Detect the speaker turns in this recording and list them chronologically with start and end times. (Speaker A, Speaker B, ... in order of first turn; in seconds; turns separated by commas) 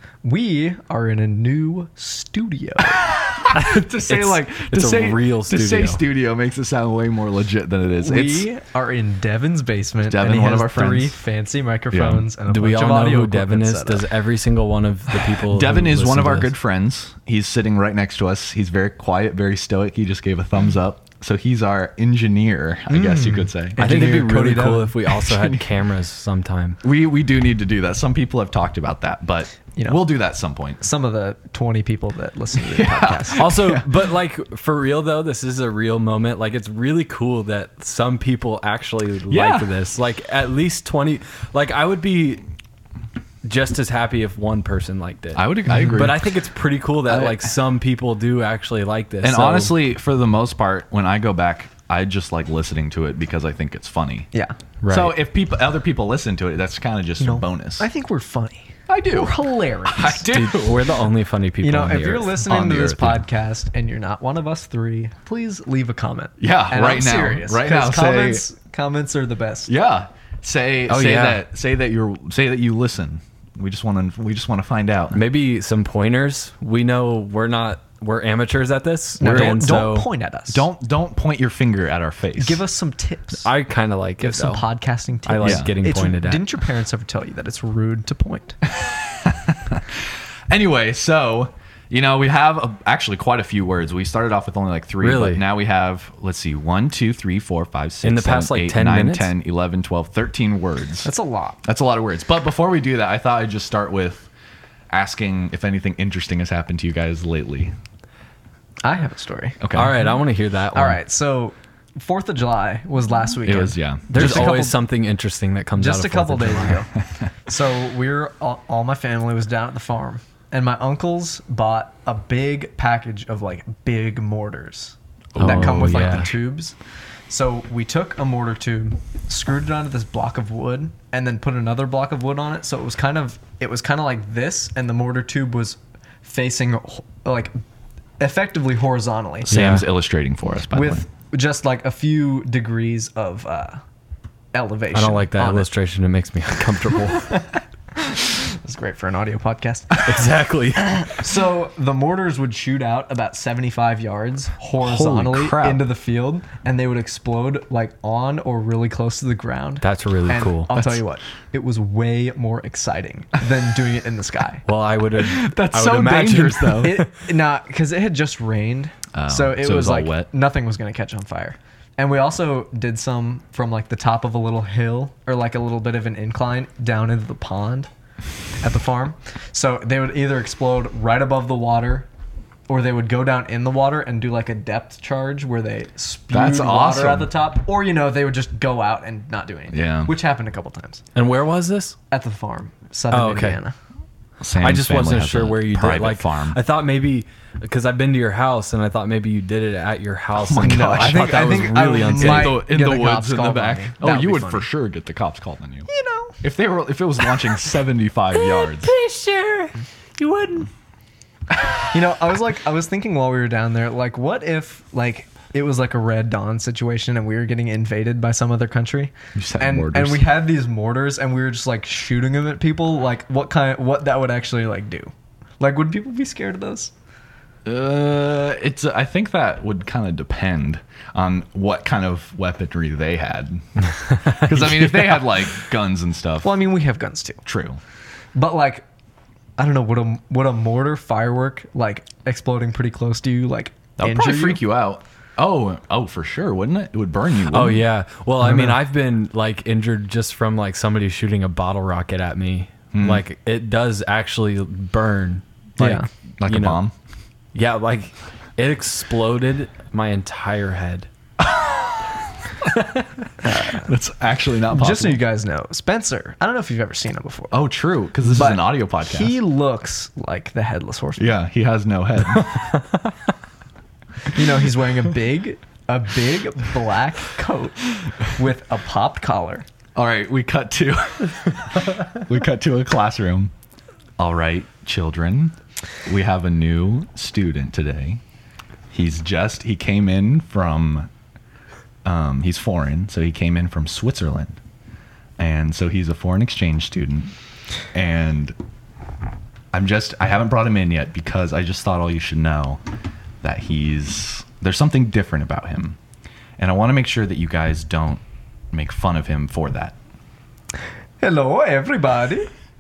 Speaker A: 0.2-3.1, Speaker B: 2.8-8.5, Speaker C: 3.5-6.0, Speaker A: 8.0-14.1, Speaker B: 10.1-11.2, Speaker B: 11.9-12.3, Speaker C: 12.5-16.5, Speaker B: 15.3-24.3, Speaker A: 22.9-25.0, Speaker C: 23.8-26.8, Speaker B: 25.1-25.7, Speaker B: 26.8-30.8, Speaker A: 29.8-30.0, Speaker A: 30.8-33.5, Speaker B: 32.5-33.9, Speaker C: 33.4-42.4, Speaker B: 39.3-39.7, Speaker C: 43.5-49.8, Speaker B: 45.4-46.2, Speaker B: 47.1-47.4, Speaker B: 49.2-54.3, Speaker C: 54.8-55.2, Speaker B: 54.9-57.9, Speaker A: 57.2-60.3, Speaker B: 58.9-61.0, Speaker C: 60.3-62.4, Speaker A: 61.6-69.7, Speaker B: 62.4-63.2, Speaker B: 66.4-68.5, Speaker B: 69.7-75.2, Speaker C: 70.9-71.4, Speaker C: 75.1-80.1, Speaker A: 79.2-80.7, Speaker B: 79.2-79.8, Speaker B: 80.5-82.6, Speaker A: 82.4-83.5, Speaker C: 83.4-84.7, Speaker A: 84.2-88.6, Speaker C: 85.3-86.4, Speaker B: 85.4-85.7, Speaker B: 88.8-101.1, Speaker C: 95.0-95.5, Speaker C: 98.0-99.3, Speaker A: 101.0-101.6, Speaker B: 101.7-104.3, Speaker B: 104.9-107.8, Speaker A: 108.8-109.6, Speaker B: 109.6-110.1, Speaker C: 109.7-111.0, Speaker A: 110.7-114.8, Speaker B: 113.4-114.7, Speaker C: 114.1-116.9, Speaker A: 115.8-126.8, Speaker B: 125.3-126.1, Speaker C: 125.4-126.3, Speaker A: 127.3-137.6, Speaker A: 138.2-139.7, Speaker B: 139.5-141.1, Speaker C: 139.5-139.9, Speaker A: 140.7-143.8, Speaker A: 144.5-145.7, Speaker C: 144.9-147.4, Speaker A: 148.0-164.6, Speaker C: 150.1-151.1, Speaker B: 154.8-155.9, Speaker C: 159.8-160.8, Speaker C: 164.7-167.1, Speaker B: 165.2-167.0, Speaker A: 166.7-177.9, Speaker B: 169.1-170.3, Speaker A: 178.6-182.1, Speaker A: 182.7-191.0, Speaker B: 186.3-187.3, Speaker B: 189.7-190.1, Speaker C: 191.2-192.0, Speaker A: 192.1-193.8, Speaker C: 193.1-193.6, Speaker B: 194.4-196.6, Speaker C: 194.6-202.6, Speaker B: 200.3-205.9, Speaker A: 200.5-204.7, Speaker A: 205.9-206.4, Speaker B: 206.4-208.9, Speaker C: 208.4-210.7, Speaker A: 211.9-226.9, Speaker B: 219.3-220.3, Speaker B: 227.7-236.5, Speaker C: 234.1-234.5, Speaker A: 236.4-237.4, Speaker B: 237.5-237.8, Speaker A: 238.3-238.8, Speaker A: 239.6-244.7, Speaker B: 244.0-247.9, Speaker C: 247.5-256.8, Speaker A: 248.4-248.8, Speaker B: 252.9-253.2, Speaker B: 255.8-256.9, Speaker A: 255.8-256.1, Speaker C: 257.5-261.1, Speaker B: 261.4-261.8, Speaker C: 262.7-263.1, Speaker A: 263.4-263.9, Speaker B: 263.8-265.2, Speaker A: 264.7-267.6, Speaker B: 267.5-269.4, Speaker A: 268.2-271.3, Speaker B: 271.2-272.7, Speaker C: 272.6-272.8, Speaker A: 274.3-279.7, Speaker B: 279.9-283.5, Speaker B: 284.2-288.2, Speaker B: 288.9-291.1, Speaker B: 292.1-294.6, Speaker B: 295.4-297.4, Speaker B: 297.9-298.6, Speaker B: 299.7-302.8, Speaker B: 303.4-306.0, Speaker B: 306.6-310.0, Speaker A: 311.2-312.5